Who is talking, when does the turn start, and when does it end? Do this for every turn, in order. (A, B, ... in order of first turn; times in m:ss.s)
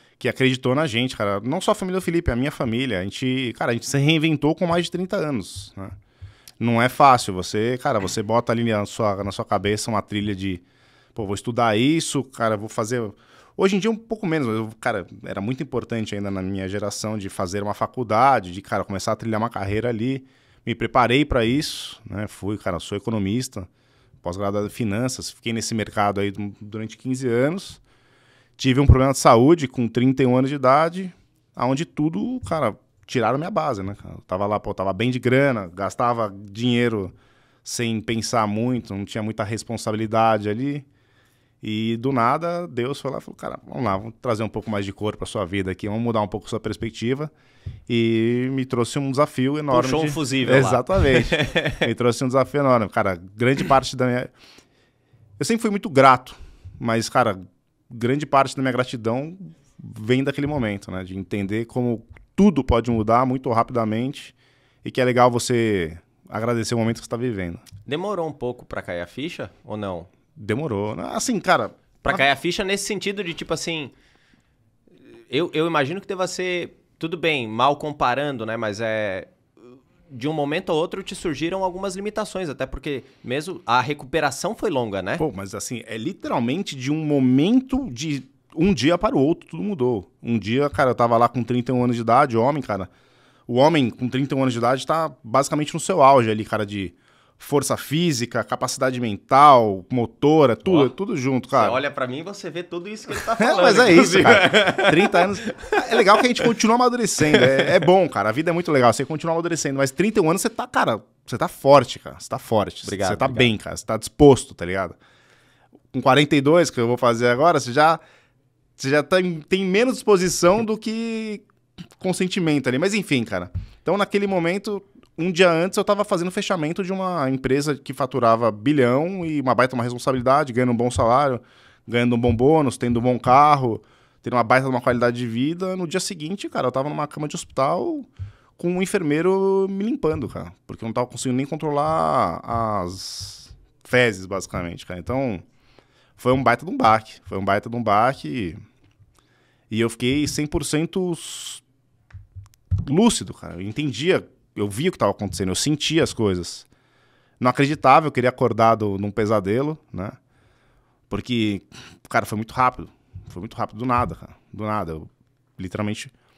0:00.2-0:05.9 A
0:06.6-0:10.6 A
0:11.2-0:23.7 A
0:24.2-0:27.8 A
0:28.6-0:37.1 A
0:37.6-0:40.9 A
0:41.6-0:47.3 A
0:47.9-0:54.3 A
0:49.7-0:51.9 B
0:55.4-1:07.6 A
1:07.9-1:10.1 B
1:10.4-1:12.2 A
1:12.0-1:13.9 B
1:15.3-1:19.3 B
1:20.1-1:25.2 B
1:25.2-1:32.9 A
1:33.5-1:41.8 A
1:40.7-1:40.9 B
1:41.5-1:46.2 B
1:43.4-1:55.0 A
1:52.8-1:53.5 B
1:55.9-1:58.0 A
1:58.8-2:01.4 A
2:02.0-2:25.4 A
2:26.2-2:28.6 A
2:29.7-2:31.6 A
2:32.8-2:36.7 A
2:37.4-2:40.2 A
2:41.1-2:46.1 A